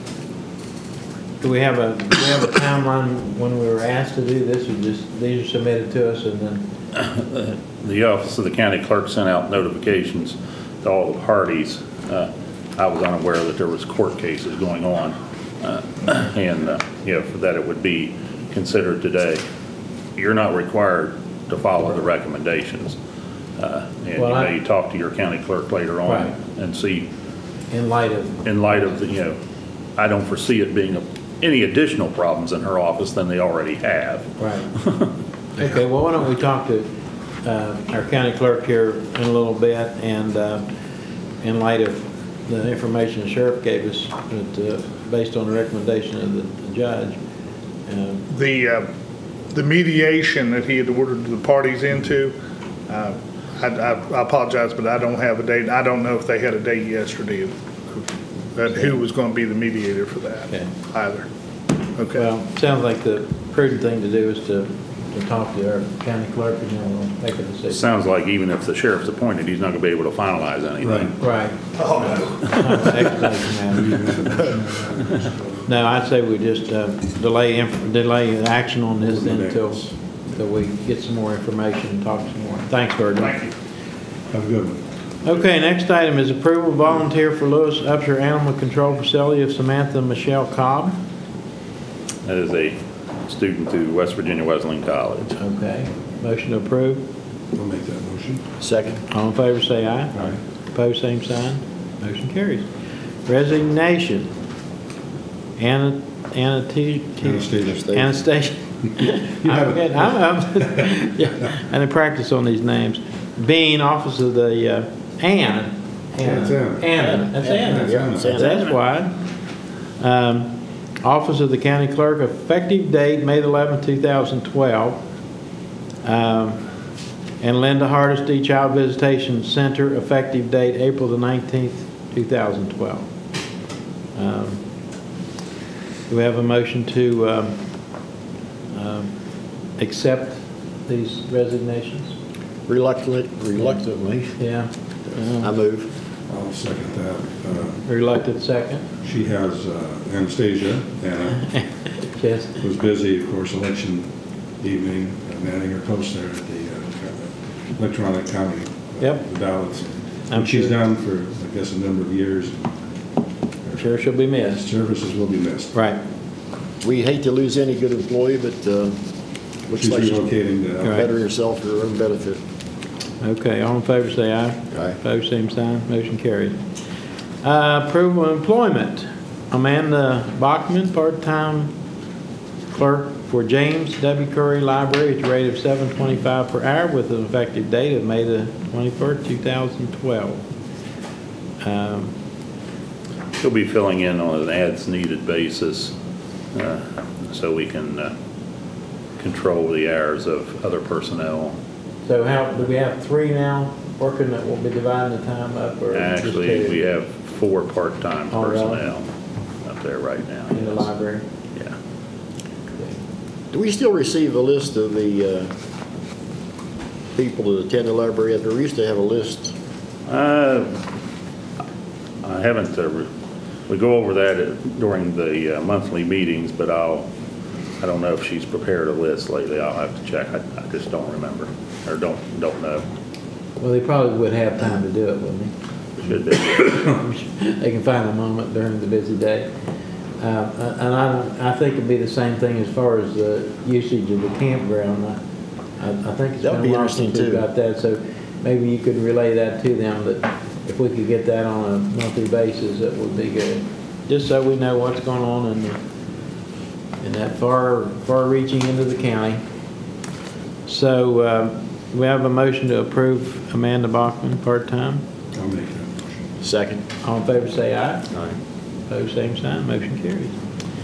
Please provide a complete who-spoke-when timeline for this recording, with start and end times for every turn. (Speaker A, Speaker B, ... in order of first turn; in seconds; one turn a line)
Speaker A: 1.4-6.7
Speaker B: 6.9-19.4
Speaker B: 20.2-23.0
Speaker B: 23.6-27.1
Speaker A: 24.1-24.6
Speaker A: 26.1-26.4
Speaker A: 27.7-28.9
Speaker B: 28.4-29.4
Speaker B: 30.0-35.1
Speaker A: 34.4-34.7
Speaker A: 35.6-36.9
Speaker A: 37.4-40.7
Speaker A: 41.4-47.2
Speaker A: 47.9-48.3
Speaker C: 48.3-48.9
Speaker C: 49.5-52.3
Speaker C: 52.9-61.3
Speaker C: 62.0-62.3
Speaker A: 62.1-67.8
Speaker B: 67.7-71.1
Speaker D: 70.8-71.2
Speaker A: 71.2-71.6
Speaker A: 72.3-74.2
Speaker D: 73.7-75.7
Speaker A: 75.7-83.4
Speaker D: 79.0-79.9
Speaker D: 84.3-84.8
Speaker A: 85.2-91.0
Speaker B: 92.2-95.3
Speaker A: 95.4-97.0
Speaker D: 97.5-98.4
Speaker E: 98.6-99.0
Speaker A: 99.1-100.2
Speaker A: 100.7-102.7
Speaker A: 103.3-104.3
Speaker A: 105.6-119.2
Speaker D: 107.2-107.9
Speaker E: 107.6-108.1
Speaker D: 109.4-110.1
Speaker D: 116.2-116.9
Speaker E: 116.9-118.7
Speaker D: 117.5-118.4
Speaker A: 120.0-125.0
Speaker A: 126.0-126.6
Speaker A: 127.4-133.1
Speaker A: 134.2-134.6
Speaker A: 136.1-137.9
Speaker A: 138.7-139.2
Speaker A: 139.8-142.2
Speaker E: 142.7-144.4
Speaker A: 144.4-145.5
Speaker E: 145.4-145.9
Speaker D: 146.3-147.8
Speaker A: 147.8-148.9
Speaker D: 149.0-151.5
Speaker A: 151.9-152.6
Speaker D: 152.6-154.1
Speaker D: 154.6-162.6
Speaker A: 160.3-160.8
Speaker A: 163.7-164.6
Speaker D: 164.6-165.7
Speaker A: 165.7-166.0
Speaker E: 166.8-168.9
Speaker E: 169.7-170.2
Speaker D: 169.8-171.1
Speaker A: 170.8-171.1
Speaker E: 170.9-172.4
Speaker A: 173.2-176.6
Speaker E: 174.7-175.0
Speaker A: 177.4-181.7
Speaker A: 182.7-190.4
Speaker A: 191.6-192.2
Speaker B: 193.4-195.9
Speaker B: 196.5-198.1
Speaker B: 199.2-201.6
Speaker A: 202.1-206.8
Speaker B: 205.9-209.1
Speaker A: 208.3-208.9
Speaker B: 209.6-210.9
Speaker A: 210.5-211.2
Speaker E: 213.5-215.5
Speaker E: 217.2-219.5
Speaker B: 220.1-220.8
Speaker B: 222.2-223.1
Speaker B: 223.7-227.1
Speaker B: 227.8-232.8
Speaker A: 233.6-235.5
Speaker B: 236.0-236.8
Speaker A: 236.7-239.5
Speaker A: 240.2-245.2
Speaker A: 245.8-255.8
Speaker E: 246.4-247.4
Speaker A: 257.0-259.4
Speaker A: 260.7-265.0
Speaker D: 265.3-266.2
Speaker E: 266.4-266.8
Speaker A: 267.0-268.2
Speaker A: 268.9-270.4